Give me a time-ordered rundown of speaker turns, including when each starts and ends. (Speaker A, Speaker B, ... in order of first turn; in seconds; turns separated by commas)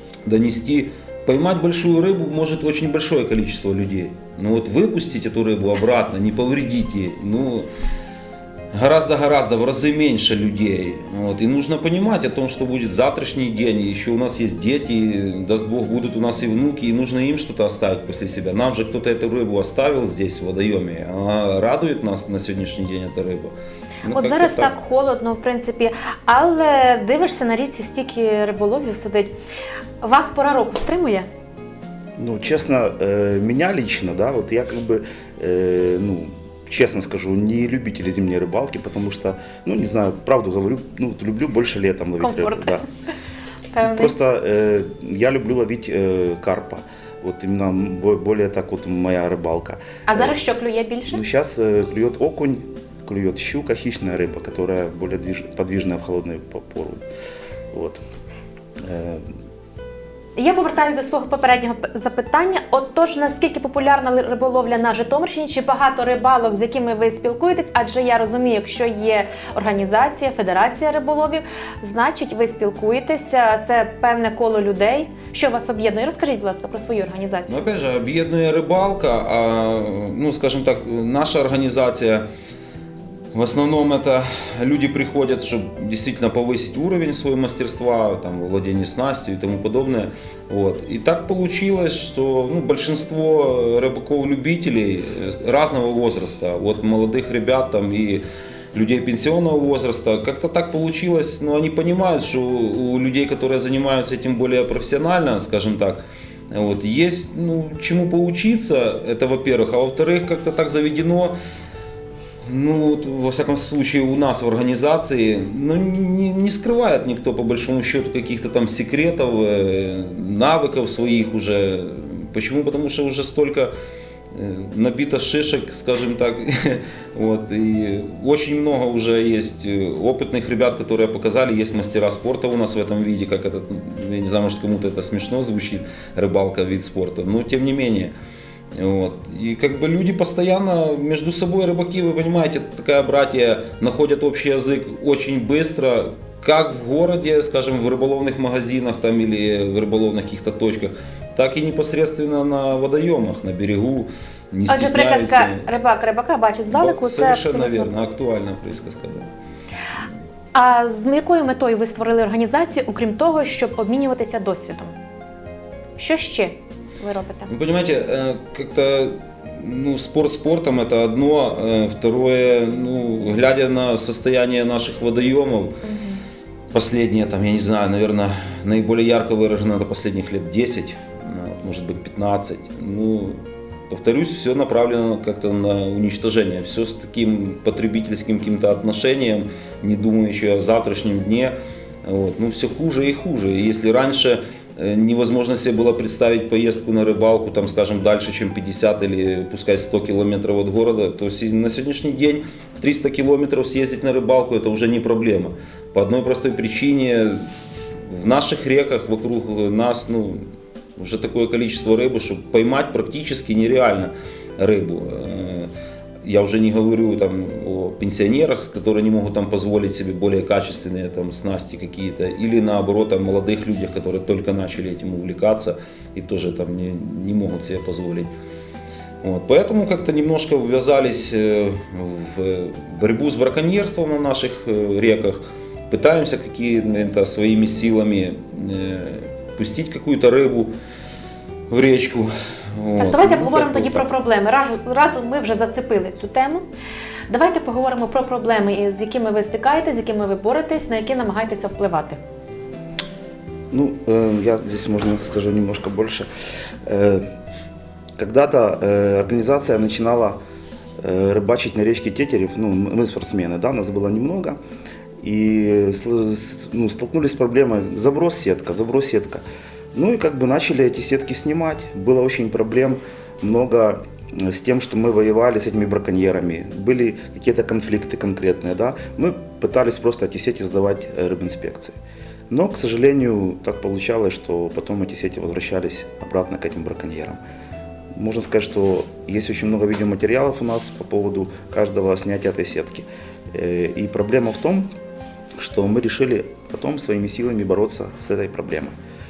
Speaker A: 0.3-7.7, Speaker A: 8.7-24.7, Speaker B: 24.1-29.3, Speaker B: 30.0-31.3, Speaker C: 32.2-42.8, Speaker B: 42.2-42.8, Speaker B: 43.7-44.1, Speaker C: 43.8-50.4, Speaker B: 50.1-51.2, Speaker C: 51.1-57.0, Speaker C: 57.7-58.0, Speaker C: 58.9-59.2, Speaker B: 60.4-77.7, Speaker A: 77.5-82.3, Speaker A: 83.3-98.2, Speaker A: 98.7-111.3, Speaker A: 112.4-123.7, Speaker A: 124.3-138.1, Speaker A: 138.8-155.6, Speaker B: 154.7-158.1, Speaker A: 156.7-159.3, Speaker B: 160.5-164.9, Speaker B: 166.0-167.5, Speaker A: 167.5-175.7, Speaker B: 175.8-176.2, Speaker A: 176.7-183.4, Speaker A: 183.9-191.5, Speaker A: 192.1-207.4, Speaker A: 208.1-210.4, Speaker A: 211.0-215.7, Speaker A: 216.2-228.3, Speaker A: 229.2-240.7, Speaker A: 241.7-244.0, Speaker B: 243.0-246.6, Speaker B: 247.3-252.2, Speaker C: 253.7-256.3, Speaker C: 256.9-257.2, Speaker C: 258.2-260.4, Speaker C: 261.0-264.6, Speaker C: 265.2-282.0, Speaker C: 282.5-287.4, Speaker C: 288.1-294.9, Speaker C: 295.6-298.9